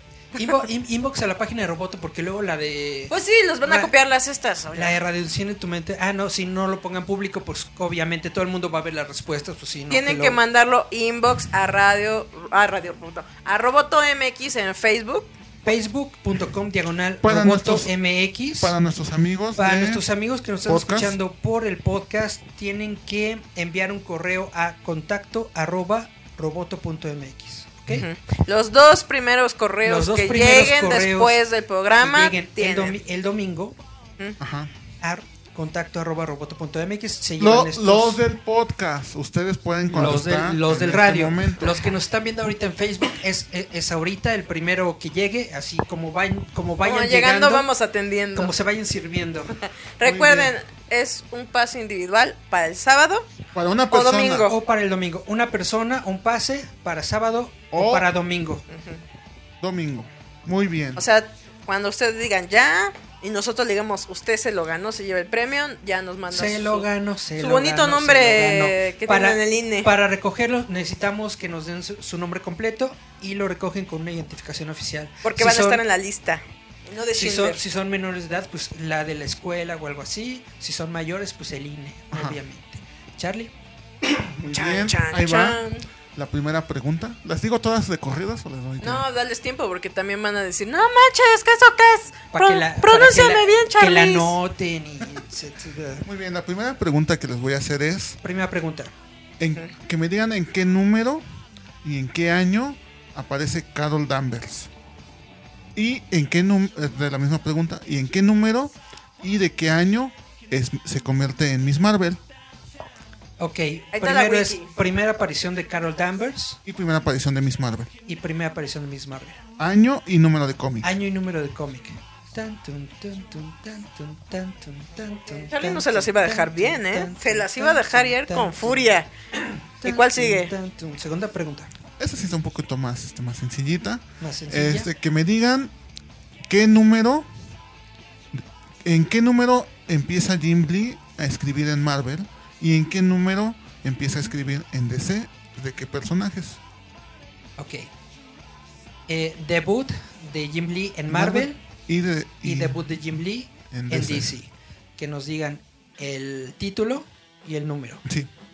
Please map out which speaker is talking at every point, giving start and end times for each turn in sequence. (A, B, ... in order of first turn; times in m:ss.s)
0:00.4-0:03.9 A
0:03.1-0:05.0 B
0:04.7-0:10.4 A
0:09.9-0:15.3 B
0:15.6-0:18.7 A
0:17.2-0:17.9 C
0:18.6-0:20.0 C
0:19.6-0:28.0 A
0:20.6-0:21.2 C
0:27.9-0:33.0 B
0:29.8-0:31.4 A
0:32.0-0:33.8 A
0:34.4-0:34.7 C
0:35.0-0:38.2 A
0:37.4-0:41.8 C
0:39.9-0:47.7 A
0:46.8-0:48.5 B
0:48.3-0:49.5 A
0:50.0-0:53.3 B
0:50.0-0:50.5 C
0:53.5-0:54.5 C
0:53.9-0:54.6 B
0:54.5-0:58.6 A
0:57.7-0:58.1 C
0:58.7-0:59.0 B
0:59.6-1:01.0 C
1:01.0-1:09.9 B
1:06.3-1:15.8 A
1:15.2-1:17.6 B
1:17.1-1:23.5 A
1:22.1-1:22.4 C
1:24.0-1:29.0 C
1:24.5-1:25.9 B
1:28.8-1:34.3 B
1:32.3-1:36.0 A
1:36.0-1:38.2 C
1:38.2-1:38.9 A
1:39.4-1:41.2 C
1:41.8-1:44.7 C
1:45.7-1:52.2 C
1:53.4-1:56.6 A
1:53.9-1:54.7 B
1:56.6-1:57.9 C
1:58.1-1:59.4 A
1:59.6-2:00.9 C
2:00.8-2:08.9 A
2:05.4-2:09.1 B
2:09.8-2:11.7 A
2:09.8-2:10.5 B
2:12.0-2:15.7 C
2:14.2-2:14.9 A
2:16.4-2:17.3 C
2:18.3-2:26.6 C
2:27.6-2:27.9 A
2:29.1-2:31.6 A
2:31.1-2:32.9 C
2:32.4-2:38.0 A
2:33.7-2:34.3 C
2:38.0-2:38.3 C